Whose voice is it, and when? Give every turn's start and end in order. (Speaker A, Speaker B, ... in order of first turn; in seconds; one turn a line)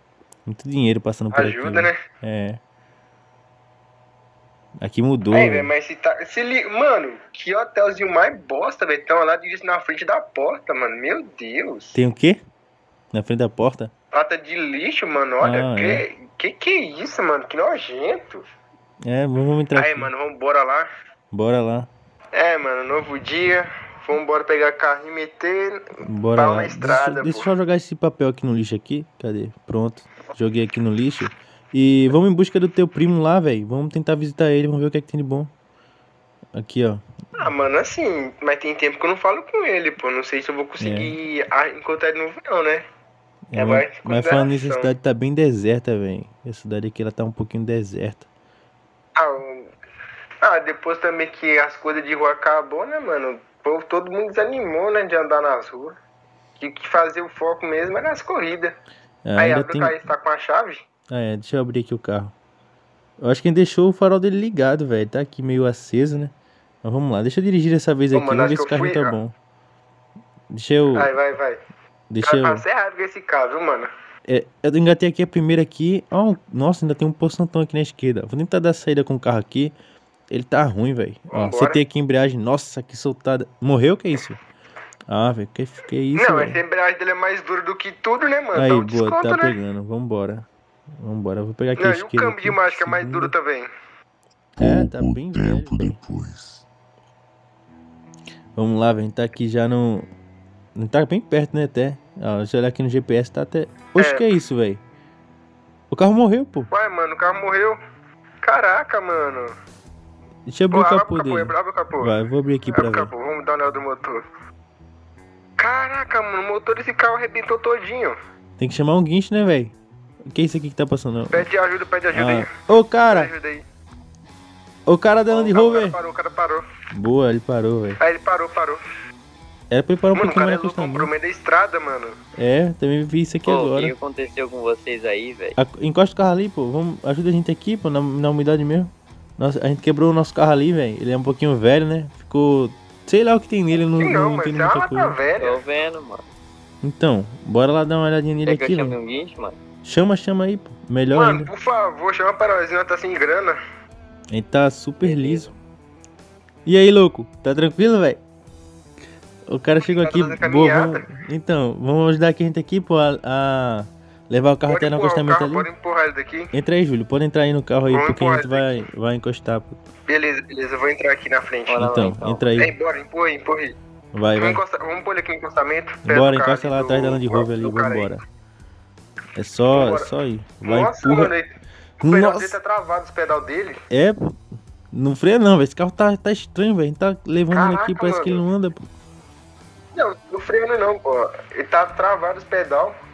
Speaker A: 0.5-2.6
Speaker B: 1.3-1.9
Speaker A: 4.8-5.7
Speaker B: 5.3-12.0
Speaker A: 11.9-12.4
Speaker A: 13.1-13.9
Speaker B: 14.1-18.4
Speaker A: 15.4-16.0
Speaker A: 19.0-20.1
Speaker B: 19.7-20.9
Speaker A: 21.3-21.9
Speaker B: 22.3-25.8
Speaker A: 26.0-35.5
Speaker B: 26.4-27.5
Speaker A: 36.5-37.4
Speaker B: 37.4-42.8
Speaker A: 40.8-41.1
Speaker A: 43.5-48.2
Speaker B: 43.6-44.9
Speaker B: 49.1-49.7
Speaker B: 50.4-56.0
Speaker B: 56.6-58.7
Speaker A: 59.2-60.0
Speaker B: 59.4-60.8
Speaker A: 61.1-62.3
Speaker A: 63.2-69.3
Speaker B: 68.1-69.1
Speaker A: 70.5-71.1
Speaker B: 70.9-71.6
Speaker A: 72.1-72.6
Speaker B: 72.2-73.9
Speaker A: 74.3-79.7
Speaker A: 80.3-84.4
Speaker B: 81.3-81.8
Speaker A: 85.1-86.6
Speaker B: 86.2-89.5
Speaker A: 88.5-93.3
Speaker B: 91.8-93.7
Speaker C: 94.6-96.7
Speaker A: 94.6-96.0
Speaker A: 98.5-100.1
Speaker A: 100.8-104.8
Speaker B: 104.0-104.2
Speaker A: 105.9-106.7
Speaker B: 106.7-107.8
Speaker B: 108.4-109.5
Speaker A: 110.5-113.1
Speaker B: 110.7-112.1
Speaker B: 112.7-114.2
Speaker B: 115.6-118.2
Speaker A: 118.6-119.7
Speaker A: 120.3-121.5
Speaker B: 121.3-122.5
Speaker A: 122.1-123.3
Speaker B: 123.1-123.6
Speaker A: 124.8-126.0
Speaker B: 125.3-126.6
Speaker A: 126.9-128.0
Speaker B: 128.0-128.8
Speaker A: 129.7-131.1
Speaker B: 130.1-132.2
Speaker A: 132.4-133.9
Speaker D: 133.4-135.6
Speaker A: 135.6-145.2
Speaker B: 144.0-145.6
Speaker D: 145.4-146.2
Speaker A: 146.8-149.0
Speaker D: 148.4-149.6
Speaker A: 149.8-151.5
Speaker B: 151.1-153.6
Speaker A: 154.3-155.5
Speaker D: 155.0-155.6
Speaker A: 156.7-158.2
Speaker A: 159.5-165.7
Speaker B: 159.8-161.1
Speaker B: 164.7-166.5
Speaker A: 166.5-169.8
Speaker B: 167.9-168.8
Speaker B: 170.1-171.9
Speaker D: 171.7-172.5
Speaker A: 171.8-172.7
Speaker B: 172.6-173.7
Speaker A: 174.1-174.6
Speaker B: 174.3-178.1
Speaker A: 176.0-178.2
Speaker A: 179.3-181.3
Speaker B: 179.7-180.1
Speaker B: 180.6-183.8
Speaker A: 182.0-182.6
Speaker A: 183.9-184.3
Speaker A: 184.9-188.8
Speaker B: 187.5-188.4
Speaker B: 189.9-192.9